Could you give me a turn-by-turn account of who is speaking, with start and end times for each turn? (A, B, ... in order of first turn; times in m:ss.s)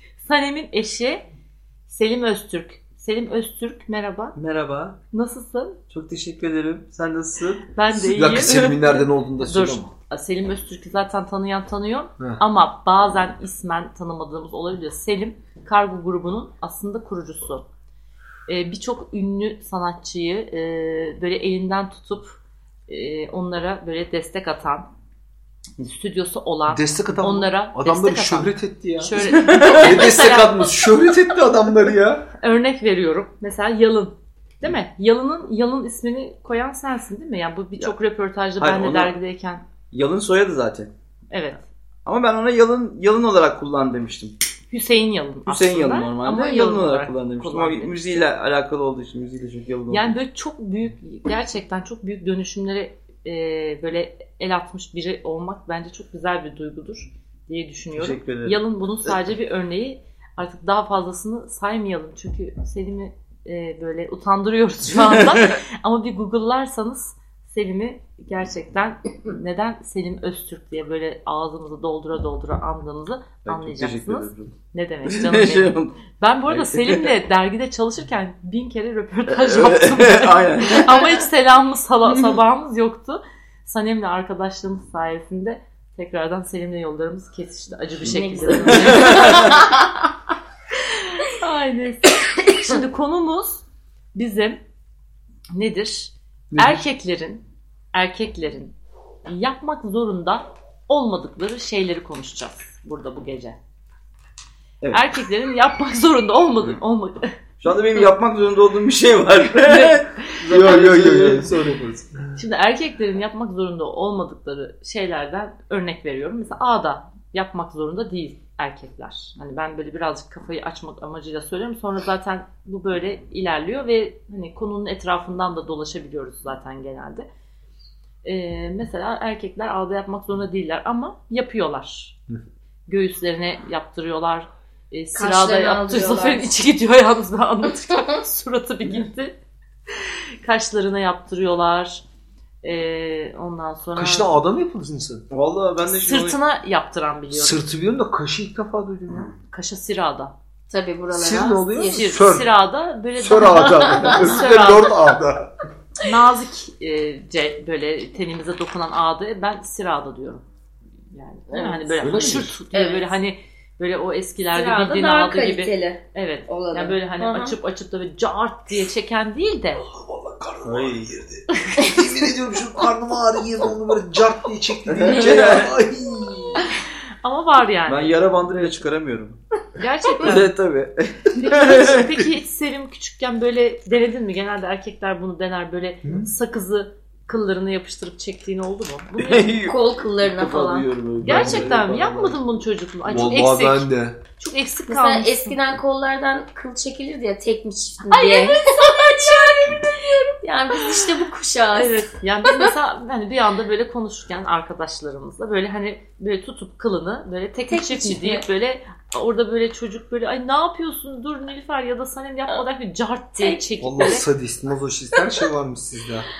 0:00.2-0:01.2 A
0:01.9-0:04.4 A
0:04.4-0:05.0 B
0:05.1-0:05.8 A
0:05.9-0:07.6 B
0:07.7-0:17.6 A
0:08.0-0:09.9 C
0:18.5-0:24.9 A
0:25.8-0:30.8 A
0:26.7-0:32.3 C
0:29.3-0:30.1 B
0:32.4-0:39.6 A
0:38.6-0:39.2 B
0:39.9-0:40.9 B
0:41.3-0:41.6 A
0:42.1-0:44.4 B
0:44.7-0:48.2 A
0:45.5-0:50.2 B
0:49.9-1:29.6 A
0:58.0-0:59.2 B
1:04.9-1:05.6 B
1:13.4-1:14.5 B
1:15.1-1:16.0 B
1:16.5-1:17.1 B
1:19.3-1:21.1 B
1:28.0-1:29.9 D
1:28.7-1:29.5 B
1:30.9-1:34.6 A
1:35.5-1:38.7 A
1:36.5-1:36.8 C
1:39.3-1:43.6 A
1:44.8-1:45.1 B
1:44.9-1:47.3 A
1:47.6-1:51.5 B
1:49.6-1:50.8 A
1:50.5-1:52.3 C
1:52.4-2:07.3 A
2:08.2-2:12.2 A
2:12.9-2:19.4 A
2:15.2-2:16.5 D
2:20.0-2:22.0 A
2:22.6-2:24.3 A
2:24.0-2:25.3 C
2:25.3-2:26.4 B
2:25.9-2:27.7 A
2:27.3-2:29.3 C
2:29.5-2:30.3 A
2:30.7-2:32.2 D
2:31.1-2:32.5 C
2:31.8-2:35.0 A
2:33.2-2:35.6 C
2:34.0-2:34.3 D
2:36.0-2:40.4 A
2:41.1-2:49.8 A
2:41.5-2:43.1 D
2:42.0-2:42.5 C
2:44.5-2:47.6 D
2:49.8-2:56.7 C
2:50.6-2:51.2 B
2:51.7-2:52.0 D
2:54.9-2:55.8 B
2:57.2-2:58.2 A
2:57.9-2:59.4 B
2:59.8-3:00.5 A
3:00.2-3:02.3 B
3:01.4-3:09.6 A
3:06.0-3:06.3 C
3:09.2-3:12.4 B
3:09.6-3:10.9 D
3:11.2-3:15.6 A
3:11.2-3:11.8 C
3:13.0-3:14.2 C
3:14.9-3:22.1 D
3:18.0-3:19.6 A
3:21.8-3:34.3 A
3:27.7-3:28.4 D
3:33.4-3:34.1 D
3:33.8-3:36.3 C